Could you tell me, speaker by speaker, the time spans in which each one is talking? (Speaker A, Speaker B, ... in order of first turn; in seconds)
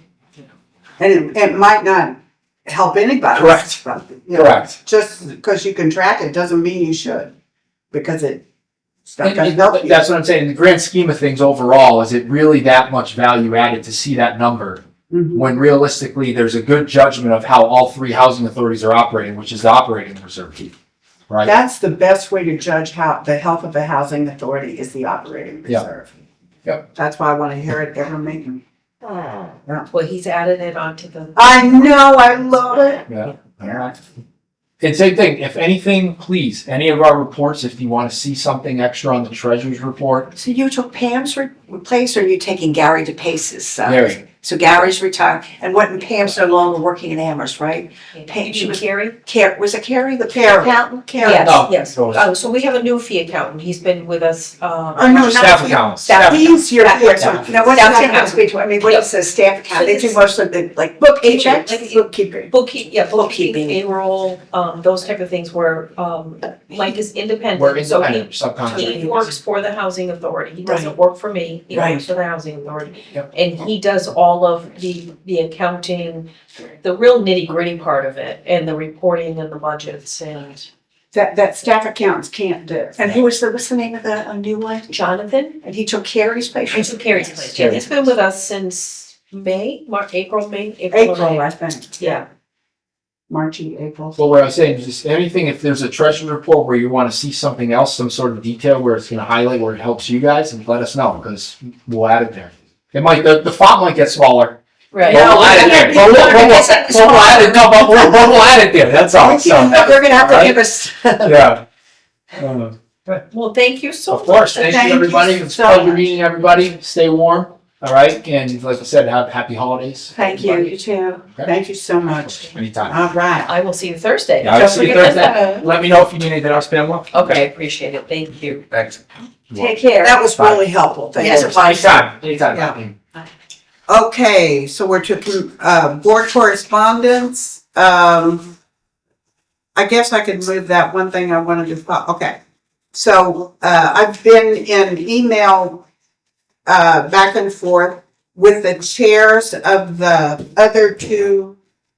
Speaker A: 1.0-7.3, 7.9-8.4, 9.1-10.1, 15.1-15.5, 21.4-26.1, 26.9-28.6, 31.4-33.0, 33.6-33.9, 50.2-51.6, 55.0-58.4, 81.1-83.1, 90.9-92.0, 93.3-94.2, 114.6-116.1, 121.5-123.5, 130.0-131.7, 133.9-138.5, 139.8-142.4, 142.9-145.8, 146.7-151.6
Speaker B: 3.4-3.7, 4.3-4.7, 9.2-20.7, 33.1-33.9, 34.8-40.3, 43.9-44.2, 51.4-52.3, 55.1-56.6, 57.2-57.5, 67.6-69.0, 87.5-87.9, 94.2-110.6, 111.2-111.6, 112.4-113.2, 114.1-120.1, 122.4-123.0, 124.4-127.4, 128.7-129.7, 130.4-130.6, 131.2-132.9
Speaker C: 29.9-32.1, 48.1-49.2, 51.2-55.8, 57.7-59.1, 59.7-60.2, 61.2-76.3, 76.8-80.7, 84.9-85.6, 86.7-91.5, 92.0-92.3, 104.9-106.7, 113.3-114.6, 120.2-120.7, 123.5-125.5, 127.1-128.7
Speaker D: 40.4-51.4, 56.1-62.5, 63.1-63.8, 68.7-69.3, 70.6-70.9, 71.7-72.0, 83.0-85.0, 85.6-87.7, 105.1-108.2, 109.2-111.5, 120.2-121.2, 124.5-125.7, 129.5-130.2, 131.2-132.0